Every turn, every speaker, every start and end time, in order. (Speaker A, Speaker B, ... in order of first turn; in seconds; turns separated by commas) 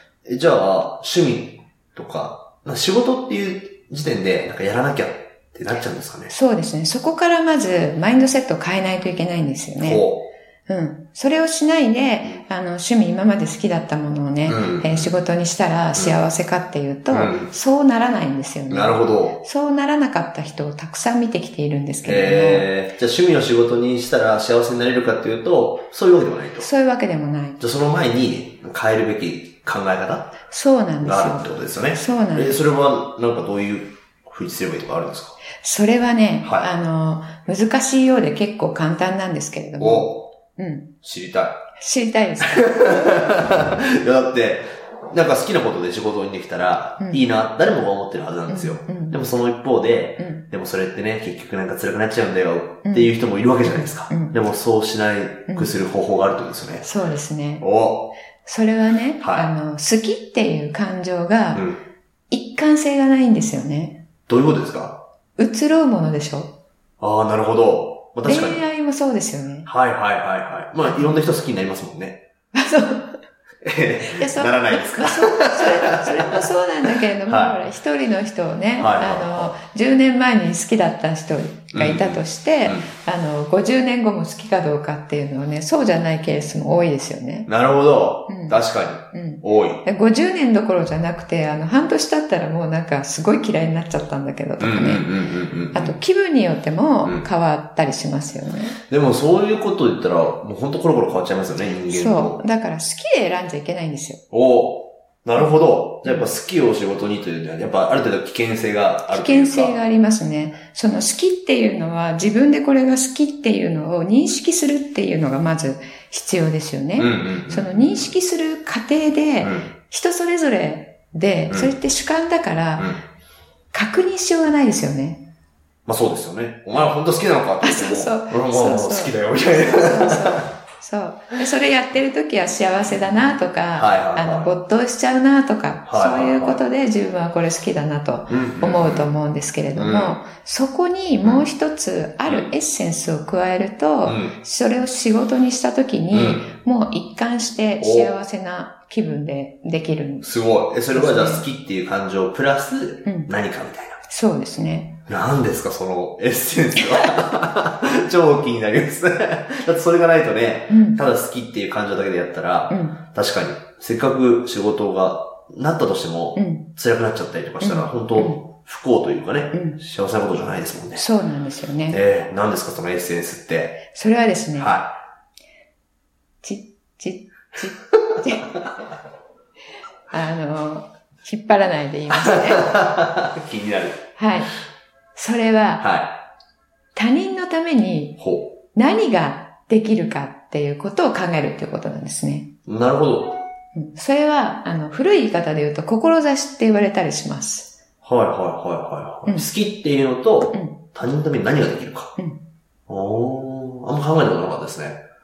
Speaker A: 0.2-6.3, Speaker B: 6.3-10.1, Speaker A: 9.8-10.3, Speaker B: 10.7-22.7, Speaker A: 14.5-15.1, Speaker A: 17.1-17.5, Speaker A: 18.7-19.4, Speaker A: 22.0-26.7, Speaker B: 26.6-27.6, Speaker A: 27.6-30.4, Speaker B: 30.5-32.6, Speaker A: 31.0-35.4, Speaker B: 35.6-40.9, Speaker A: 36.4-36.7, Speaker A: 39.8-40.3, Speaker A: 41.0-41.6, Speaker B: 41.8-42.8, Speaker A: 42.4-56.9, Speaker B: 48.5-49.2, Speaker B: 50.2-50.4, Speaker B: 52.9-54.4, Speaker B: 56.8-57.6, Speaker A: 57.6-58.1, Speaker B: 58.4-61.6, Speaker A: 59.2-59.5, Speaker A: 61.5-61.8, Speaker B: 62.3-64.0, Speaker A: 64.3-65.0, Speaker B: 65.4-66.5, Speaker A: 67.0-68.6, Speaker B: 68.2-69.7, Speaker A: 69.7-72.2, Speaker B: 70.8-71.2, Speaker B: 72.5-73.2, Speaker A: 73.6-76.5, Speaker B: 74.1-87.5, Speaker A: 77.3-77.6, Speaker A: 78.8-79.6, Speaker A: 81.7-82.9, Speaker A: 87.5-89.8, Speaker B: 88.3-88.6, Speaker B: 89.1-95.1, Speaker A: 94.6-96.0, Speaker B: 95.7-98.8, Speaker A: 98.9-102.4, Speaker B: 101.9-104.2, Speaker A: 104.3-109.8, Speaker B: 106.0-106.3, Speaker B: 109.1-122.9, Speaker A: 117.0-118.1, Speaker A: 119.4-119.7, Speaker A: 121.5-121.7, Speaker B: 123.7-125.2, Speaker A: 125.9-130.5, Speaker B: 127.6-150.3, Speaker A: 133.8-134.6, Speaker A: 135.9-136.6, Speaker A: 138.3-139.1, Speaker A: 139.8-140.2, Speaker A: 144.1-144.3, Speaker A: 146.1-146.5, Speaker A: 147.8-148.1, Speaker A: 150.2-154.0, Speaker B: 150.9-151.5, Speaker B: 153.1-153.3, Speaker B: 154.1-154.9, Speaker A: 155.1-171.0, Speaker B: 160.7-161.0, Speaker B: 162.7-163.0, Speaker B: 166.4-166.7, Speaker B: 167.6-168.4, Speaker B: 169.5-169.8, Speaker B: 170.9-172.0, Speaker A: 171.9-173.8, Speaker B: 173.9-174.7, Speaker A: 174.6-175.0, Speaker B: 176.4-178.6, Speaker B: 180.1-182.8, Speaker A: 182.1-184.1, Speaker B: 184.2-184.5, Speaker B: 185.2-185.8, Speaker A: 185.8-186.2, Speaker B: 186.9-188.2, Speaker A: 188.2-188.5, Speaker B: 188.8-192.5, Speaker A: 192.7-193.4, Speaker B: 193.8-197.7, Speaker A: 198.0-202.1, Speaker B: 200.5-200.8, Speaker A: 202.9-205.0